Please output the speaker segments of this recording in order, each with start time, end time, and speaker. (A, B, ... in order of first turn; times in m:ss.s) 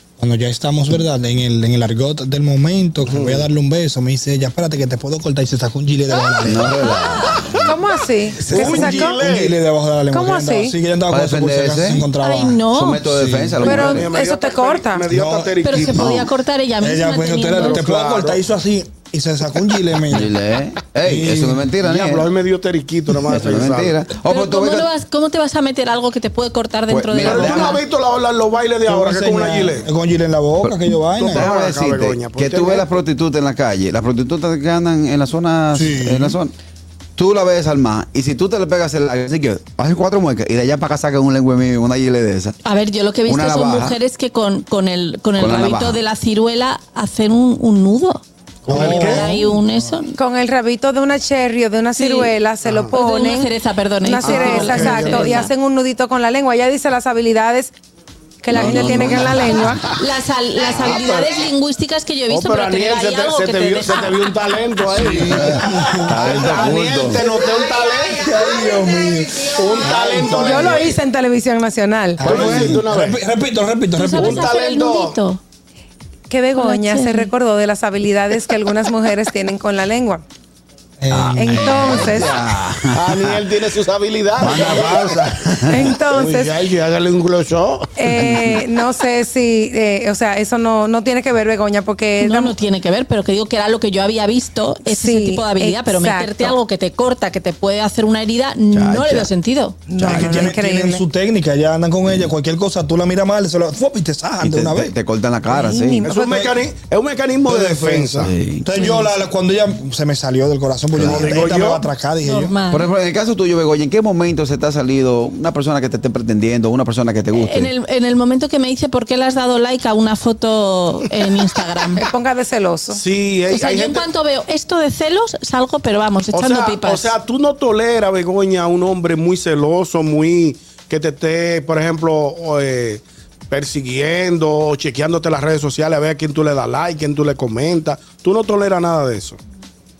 0:00.2-0:06.8 A
0:03.0-0:03.5 B
0:06.4-0:07.7 C
0:07.6-0:09.2 D
0:08.4-0:09.6 B
0:08.4-0:13.7 A
0:10.1-0:10.8 D
0:11.1-0:12.1 C
0:12.1-0:13.0 E
0:12.7-0:14.1 C
0:13.6-0:16.1 B
0:13.6-0:15.0 D
0:15.1-0:20.3 A
0:15.6-0:17.8 E
0:15.8-0:16.2 C
0:17.7-0:18.4 B
0:20.1-0:22.3 C
0:21.0-0:22.0 A
0:21.9-0:24.0 B
0:23.3-0:24.9 C
0:24.1-0:27.8 E
0:26.9-0:27.8 C
0:27.2-0:29.9 B
0:28.8-0:31.5 A
0:31.2-0:33.0 B
0:31.3-0:36.5 C
0:35.7-0:36.4 A
0:37.2-0:42.6 C
0:42.6-0:48.2 E
0:43.2-0:44.0 C
0:45.3-0:46.0 C
0:48.6-0:49.3 B
0:48.7-0:49.9 A
0:49.0-0:50.1 E
0:50.1-0:57.7 D
0:52.0-0:52.3 E
0:52.6-0:53.0 B
0:52.9-0:55.5 E
0:54.2-0:55.4 B
0:54.4-0:55.1 A
0:58.4-0:59.9 D
0:58.5-1:00.0 C
0:59.9-1:04.4 E
1:00.7-1:01.0 C
1:00.8-1:01.2 B
1:02.3-1:05.6 B
1:04.9-1:07.2 A
1:05.3-1:07.3 C
1:06.2-1:08.3 B
1:07.7-1:12.4 D
1:08.2-1:10.8 A
1:09.5-1:11.0 B
1:12.2-1:14.5 A
1:12.2-1:13.2 B
1:13.9-1:15.4 E
1:14.1-1:15.2 B
1:16.3-1:20.2 D
1:16.5-1:17.3 E
1:21.0-1:22.3 A
1:21.1-1:23.4 C
1:21.3-1:22.3 D
1:22.9-1:25.2 B
1:24.4-1:26.0 C
1:25.7-1:26.5 D
1:26.0-1:28.1 B
1:28.0-1:32.6 D
1:28.1-1:28.6 C
1:32.2-1:39.9 E
1:34.8-1:36.6 D
1:38.7-1:39.3 C
1:39.9-1:41.0 D
1:39.9-1:44.9 A
1:40.1-1:40.5 C
1:44.4-1:46.1 C
1:45.5-1:46.3 D
1:46.0-1:48.3 B
1:46.1-1:46.5 A
1:47.4-1:52.6 A
1:48.2-1:48.7 C
1:48.8-1:49.1 E
1:50.9-1:51.3 C
1:51.0-1:51.8 B
1:52.2-1:52.9 E
1:52.7-1:57.7 C
1:57.3-2:02.1 E
2:01.9-2:03.0 D
2:02.9-2:04.1 B
2:03.5-2:07.1 E
2:06.3-2:19.4 B